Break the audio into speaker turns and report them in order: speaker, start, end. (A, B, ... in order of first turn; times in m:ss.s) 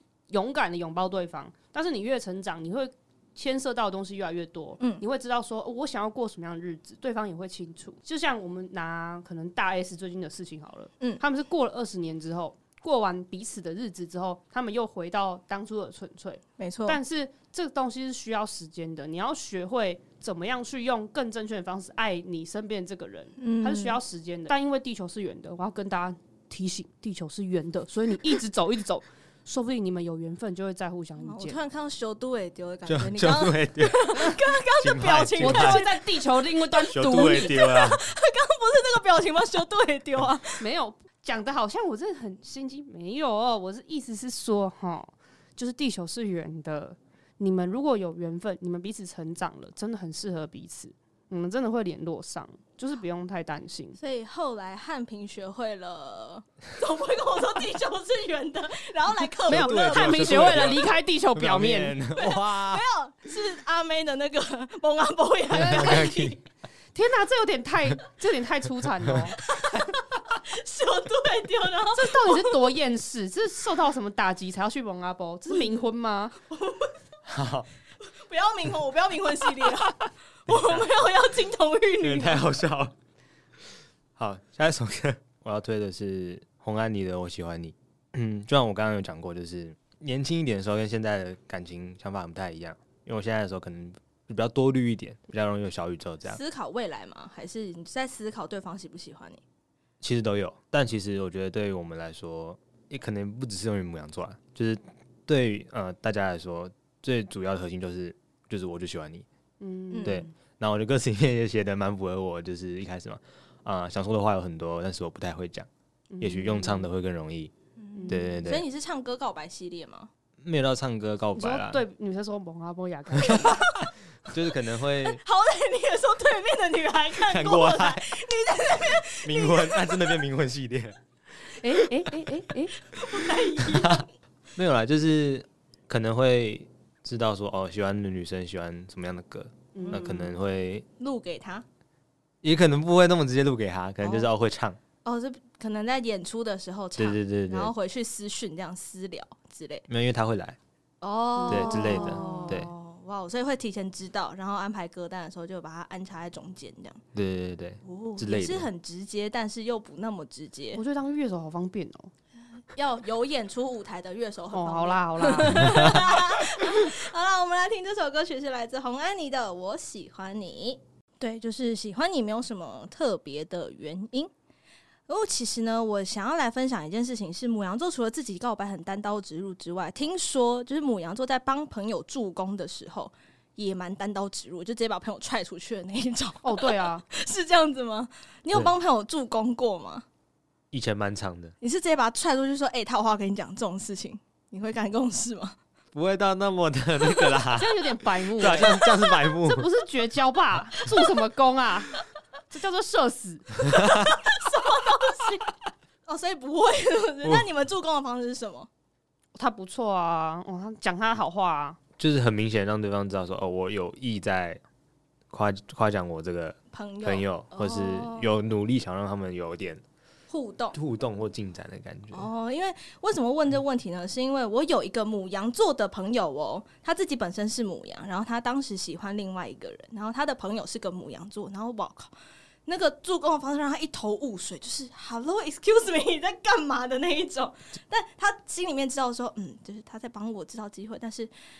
0:00.3-0:31.6 A
0:16.6-0:17.0 B
0:23.4-0:24.0 B
0:31.2-0:36.0 B
0:32.8-0:35.9 C
0:35.4-0:37.6 A
0:36.6-0:40.6 B
0:36.9-0:38.0 C
0:40.6-0:54.0 A
0:54.0-1:00.7 B
0:59.4-1:02.0 A
0:59.5-1:02.8 C
1:02.1-1:06.4 B
1:05.5-1:06.3 A
1:05.5-1:06.4 C
1:06.9-1:09.4 A
1:09.4-1:12.5 B
1:11.9-1:16.3 A
1:16.5-1:16.9 B
1:17.3-1:17.7 C
1:18.0-1:22.4 B
1:20.5-1:20.9 C
1:22.0-1:22.9 C
1:24.2-1:36.4 C
1:36.3-1:39.4 B
1:40.0-1:49.2 C
1:49.6-1:50.2 A
1:49.9-1:50.3 B
1:50.0-1:55.7 C
1:56.1-1:56.9 A
1:56.2-1:57.5 C
1:57.8-2:00.1 B
1:58.0-1:58.3 A
1:58.1-1:58.6 C
2:00.4-2:01.8 C
2:01.3-2:03.7 A
2:03.2-2:03.6 C
2:03.3-2:03.9 B
2:04.3-2:05.2 C
2:05.0-2:10.1 B
2:07.2-2:08.1 C
2:09.0-2:11.0 C
2:11.6-2:12.7 A
2:12.8-2:14.1 B
2:13.7-2:14.0 C
2:14.6-2:20.8 C
2:19.7-2:20.2 A
2:19.8-2:20.3 B
2:21.0-2:21.6 B
2:22.4-2:24.8 C
2:24.0-2:24.3 B
2:25.0-2:29.8 B
2:27.0-2:27.7 C
2:29.9-2:30.6 C
2:31.0-2:37.0 B
2:31.4-2:32.6 A
2:31.5-2:32.7 C
2:37.1-2:38.7 C
2:37.8-2:40.8 B
2:40.7-2:42.1 A
2:42.7-2:54.3 B
2:44.5-2:46.1 A
2:45.5-2:45.9 C
2:55.1-3:10.0 B
3:06.4-3:07.0 A
3:10.7-3:11.5 C
3:11.6-3:15.6 B
3:15.9-3:19.7 C
3:17.5-3:23.6 A
3:18.5-3:19.0 B
3:23.7-3:25.5 B
3:23.7-3:24.0 C
3:26.1-3:28.7 B
3:29.3-3:31.8 A
3:32.0-3:34.6 C
3:35.3-3:39.8 C
3:36.7-3:38.3 B
3:40.3-3:40.8 B
3:40.7-3:42.3 C
3:42.1-3:52.1 B
3:52.6-4:01.3 B